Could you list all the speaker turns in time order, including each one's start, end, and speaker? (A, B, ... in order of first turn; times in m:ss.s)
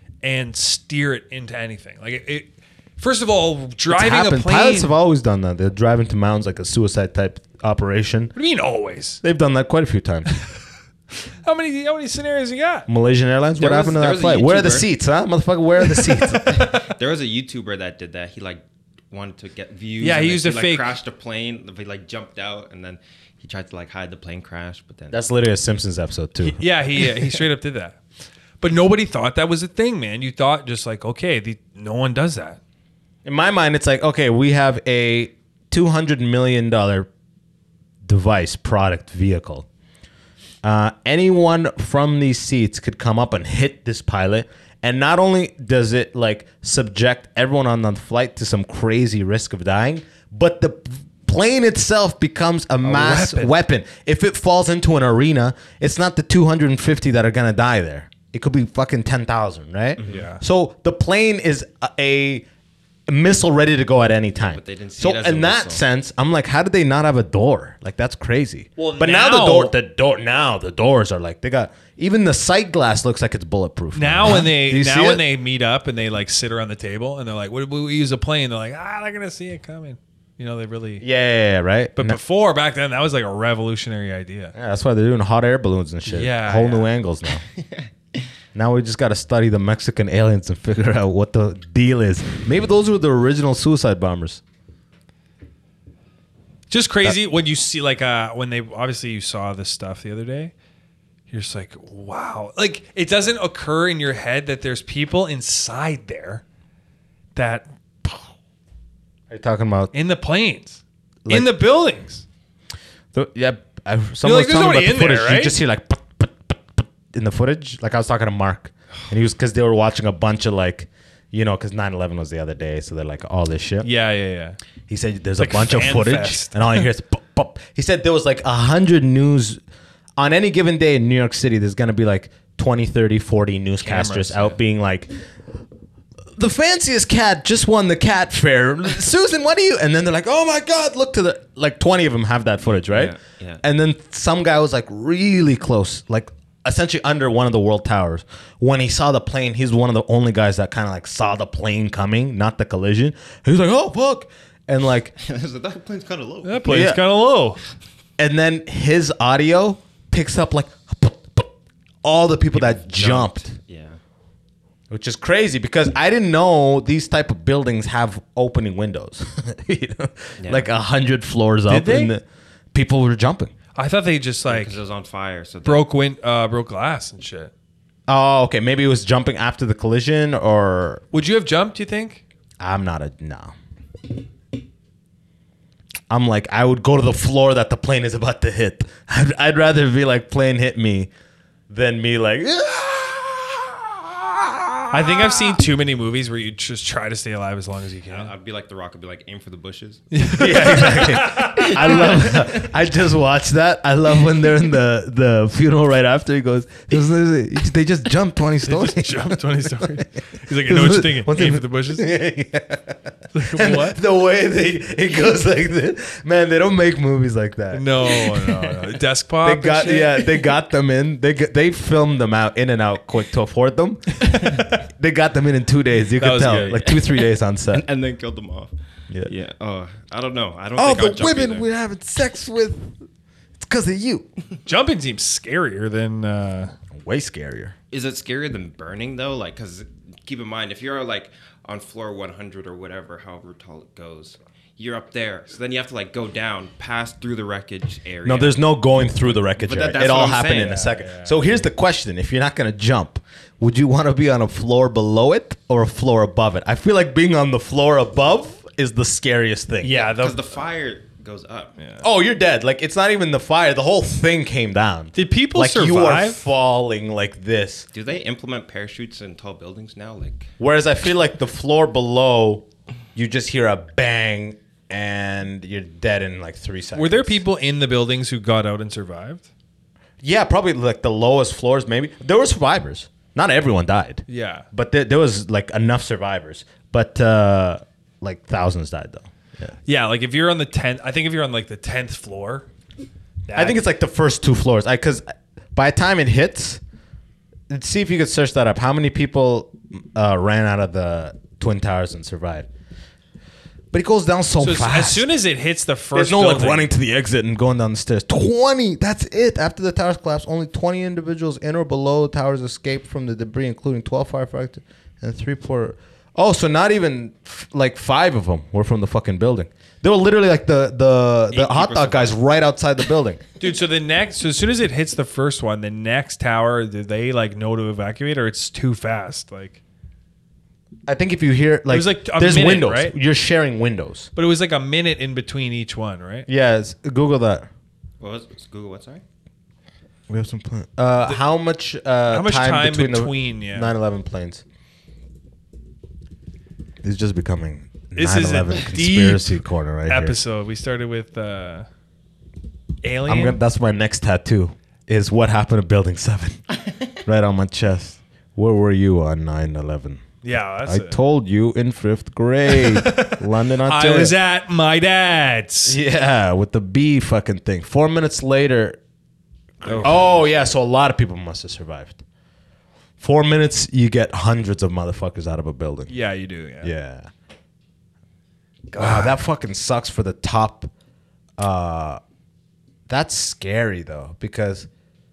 0:00.2-0:04.9 A
0:03.9-0:08.3 B
0:08.3-0:09.2 A
0:09.2-0:10.3 B
0:11.4-0:12.9 A
0:12.9-0:16.6 B
0:13.6-0:14.9 C
0:16.4-0:25.2 C
0:20.0-0:20.9 A
0:25.1-0:26.6 B
0:26.4-0:28.0 A
0:28.6-0:32.6 A
0:33.2-0:37.1 B
0:38.0-0:39.6 B
0:40.6-1:02.4 B
0:52.8-0:53.5 A
1:00.0-1:00.3 C
1:00.0-1:00.4 A
1:03.1-1:15.2 B
1:04.4-1:05.8 C
1:08.8-1:09.7 A
1:13.9-1:21.0 A
1:21.0-1:22.2 B
1:22.0-1:24.5 A
1:24.5-1:27.4 B
1:26.0-1:26.9 A
1:28.5-1:34.4 B
1:36.7-1:40.5 A
1:41.3-1:46.4 A
1:47.3-1:48.3 A
1:49.3-1:49.9 B
1:49.9-1:52.2 A
1:51.2-1:51.6 B
1:53.1-2:03.9 B
1:54.2-1:55.6 A
2:03.8-2:04.6 A
2:04.9-2:09.6 B
2:05.4-2:06.9 A
2:10.2-2:15.1 B
2:13.8-2:14.5 A
2:16.3-2:35.1 B
2:22.8-2:23.6 C
2:35.2-2:36.8 C
2:36.4-2:37.6 A
2:36.7-2:37.0 B
2:38.2-2:41.5 B
2:42.0-2:43.5 B
2:42.5-2:44.0 C
2:44.9-2:53.5 B
2:50.4-2:50.6 C
2:51.7-2:52.1 A
2:53.7-2:54.8 A
2:54.4-2:55.9 C
2:55.6-2:57.5 A
2:58.1-3:01.0 B
3:01.1-3:02.2 A
3:02.6-3:03.5 B
3:06.1-3:11.1 B
3:11.7-3:15.2 B
3:14.9-3:18.3 A
3:18.1-3:20.9 C
3:20.1-3:22.0 A
3:20.4-3:38.2 B
3:21.6-3:22.7 C
3:28.6-3:32.1 A
3:33.3-3:34.0 A
3:37.7-3:40.2 A
3:39.4-3:47.8 B
3:44.2-3:44.8 A
3:46.2-3:46.8 A
3:46.5-3:51.6 C
3:50.8-3:52.9 B
3:53.6-3:54.3 B
3:54.6-3:56.7 A
3:56.9-3:57.7 B
3:57.9-4:10.9 C
4:08.2-4:20.0 B
4:10.9-4:11.6 A
4:19.8-4:20.4 A
4:20.0-4:21.7 C
4:21.8-4:22.0 A
4:22.0-4:27.8 B
4:25.1-4:26.4 A
4:27.9-4:30.5 C
4:30.6-4:37.4 B
4:36.9-4:39.5 A
4:40.2-4:49.7 B
4:44.3-4:44.6 A
4:49.8-4:52.7 A
4:53.5-4:53.8 A
4:53.5-4:56.8 B
4:57.7-5:02.7 B
5:03.9-5:05.3 B
5:04.6-5:06.9 A
5:06.1-5:23.4 B
5:21.5-5:22.4 C
5:23.6-5:29.8 A
5:31.1-5:34.3 B
5:31.9-5:33.1 A
5:34.4-5:36.5 A
5:36.5-5:37.7 B
5:38.2-5:39.2 C
5:40.3-5:44.6 B
5:42.3-5:43.9 A
5:47.0-5:50.4 B
5:48.2-5:51.9 A
5:53.0-5:53.6 A
5:53.2-5:56.6 B
5:57.2-6:00.2 B
6:00.4-6:01.2 A
6:00.8-6:04.4 B
6:02.7-6:06.0 A
6:05.8-6:09.0 B
6:09.8-6:10.5 C
6:09.8-6:10.3 A
6:10.0-6:12.2 B
6:13.2-6:16.1 B
6:16.1-6:16.9 A
6:16.8-6:17.3 B
6:18.9-6:19.3 A
6:19.0-6:20.9 B
6:21.6-6:22.2 B
6:23.1-6:24.9 B